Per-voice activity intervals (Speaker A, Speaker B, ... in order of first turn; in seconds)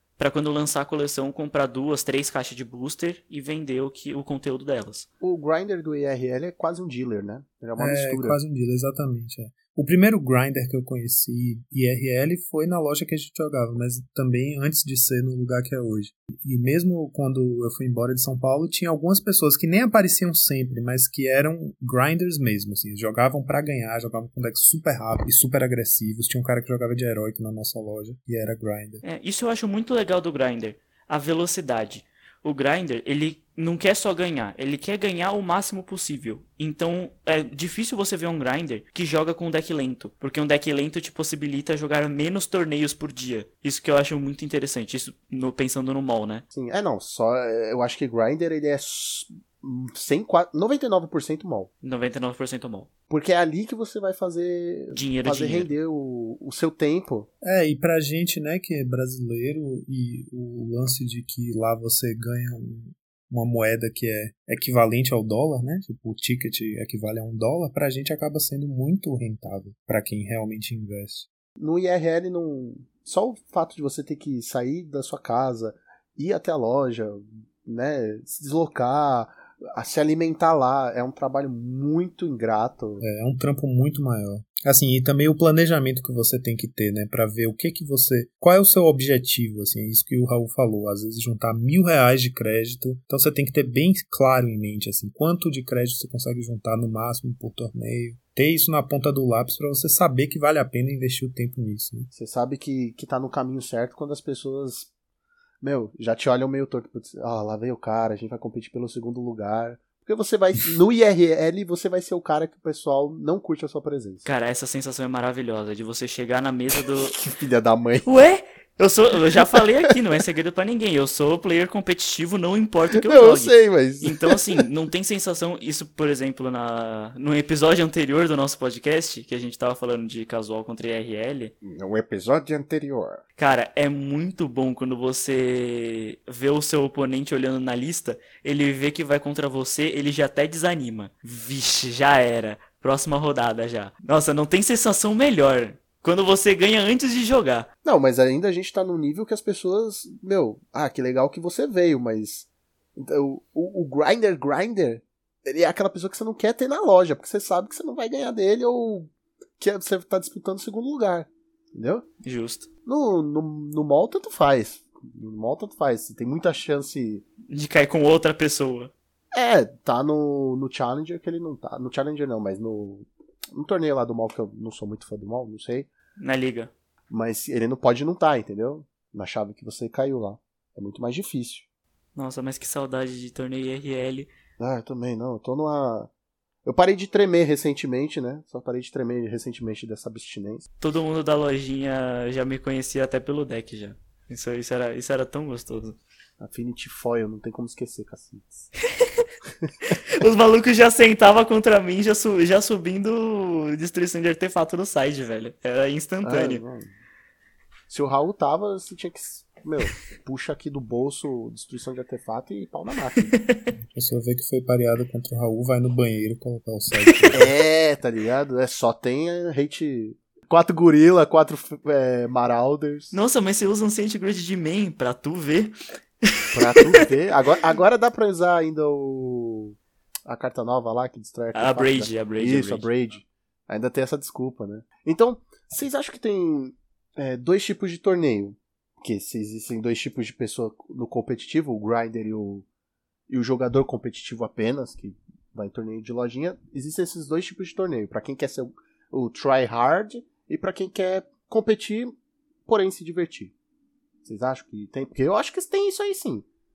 Speaker A: 0.2-5.1, 29.0-46.4, 51.8-52.9, 54.9-55.7, 114.2-117.2, 118.0-131.5, 133.4-147.7, 162.2-162.7, 167.5-168.9, 176.2-176.7, 182.1-184.3, 190.8-196.0, 199.0-199.2, 200.2-206.6, 213.2-213.7, 217.0-217.4, 223.1-227.1, 231.5-232.9
Speaker B: 5.2-8.4, 46.5-51.7, 53.1-57.3, 71.6-83.0, 102.1-104.9, 105.6-114.2, 116.8-118.1, 122.9-124.6, 131.6-133.2, 147.8-162.0, 162.8-167.2, 169.3-175.9, 177.1-181.6, 184.6-186.1, 186.6-190.6, 196.4-198.6, 199.6-200.0, 206.2-206.9, 207.9-213.3, 217.3-223.1, 226.5-229.8, 230.3-242.7, 243.3-252.1, 252.7-253.5, 254.2-256.4
Speaker C: 7.8-29.0, 57.4-71.3, 83.0-102.1, 213.9-217.4